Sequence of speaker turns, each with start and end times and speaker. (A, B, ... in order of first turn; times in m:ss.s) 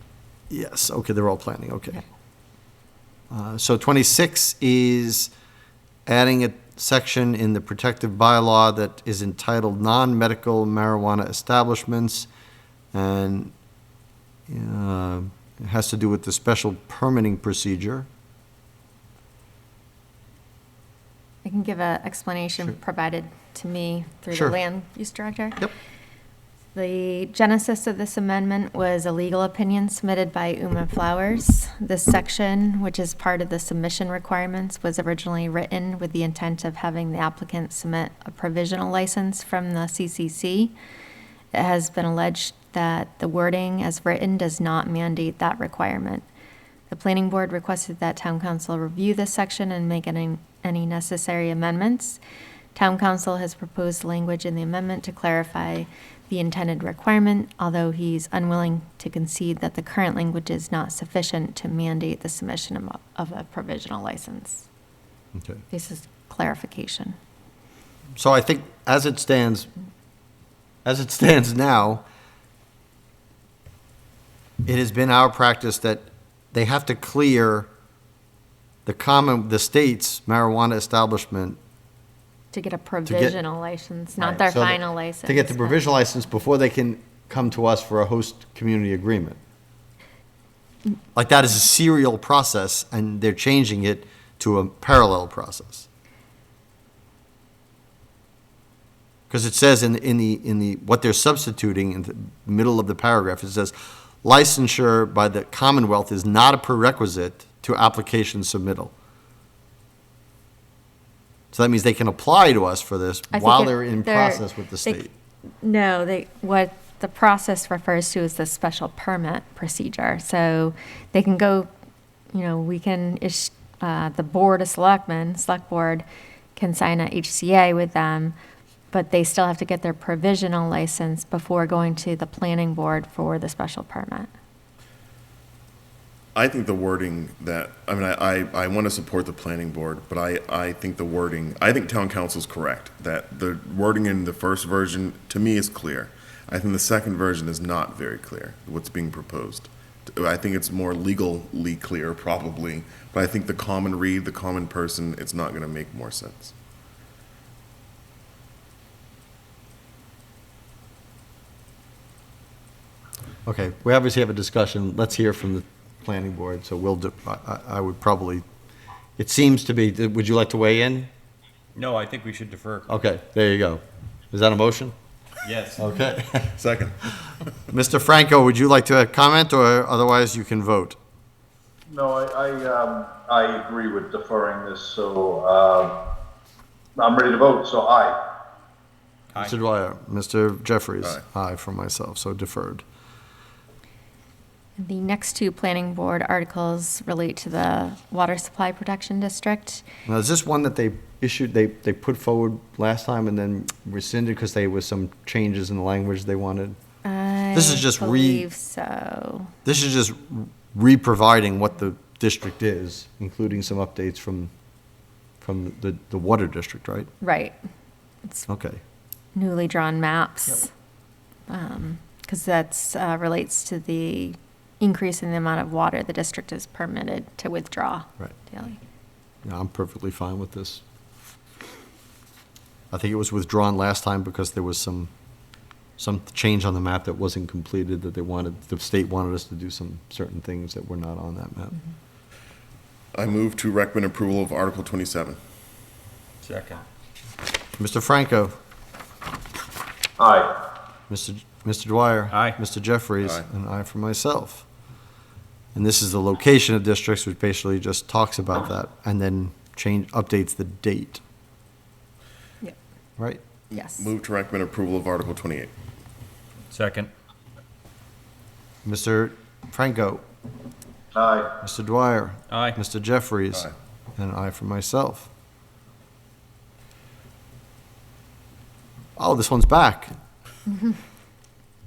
0:00.5-0:02.0 A
0:03.3-0:05.3 A
0:06.0-0:12.3 A
0:12.9-0:13.5 A
0:14.5-0:18.1 A
0:21.4-0:25.7 B
0:26.7-0:40.7 B
0:41.5-0:46.2 B
0:46.9-0:52.2 B
0:52.7-1:04.7 B
1:05.3-1:05.6 A
1:05.7-1:07.2 B
1:08.2-1:09.7 A
1:10.8-1:12.0 A
1:14.6-1:17.7 A
1:18.8-1:21.6 A
1:22.5-1:25.8 B
1:23.0-1:23.4 A
1:24.2-1:29.4 A
1:31.2-1:35.9 A
1:39.3-1:48.9 A
1:51.5-1:55.1 A
1:53.3-1:55.1 B
1:55.6-2:01.7 B
2:02.3-2:06.0 B
2:06.6-2:08.3 B
2:08.9-2:14.3 B
2:16.3-2:36.5 C
2:43.4-2:48.4 A
2:49.2-2:51.1 A
2:51.7-2:52.9 D
2:52.9-2:54.9 A
2:55.4-2:55.9 D
2:55.8-2:56.5 A
2:56.5-2:57.3 C
2:57.7-3:01.0 A
3:01.9-3:05.9 E
3:07.0-3:08.2 E
3:09.4-3:12.8 A
3:14.8-3:19.8 B
3:20.0-3:26.8 A
3:27.0-3:29.5 B
3:27.5-3:28.4 A
3:29.6-3:34.5 A
3:35.4-3:37.1 A
3:37.2-3:37.6 B
3:38.5-3:38.8 A
3:39.3-3:40.7 B
3:41.5-3:48.8 B
3:49.4-3:50.8 A
3:52.9-3:55.1 A
3:56.0-4:01.8 A
4:03.1-4:05.4 C
4:06.4-4:06.8 D
4:07.8-4:08.5 A
4:10.2-4:10.6 E
4:11.1-4:14.6 A
4:12.3-4:12.6 D
4:15.7-4:21.2 A
4:23.7-4:25.7 C
4:23.7-4:24.0 B
4:26.7-4:27.1 D
4:28.8-4:30.2 A
4:31.1-4:31.5 E
4:31.6-4:35.3 A
4:32.5-4:32.8 D
4:39.2-4:40.1 A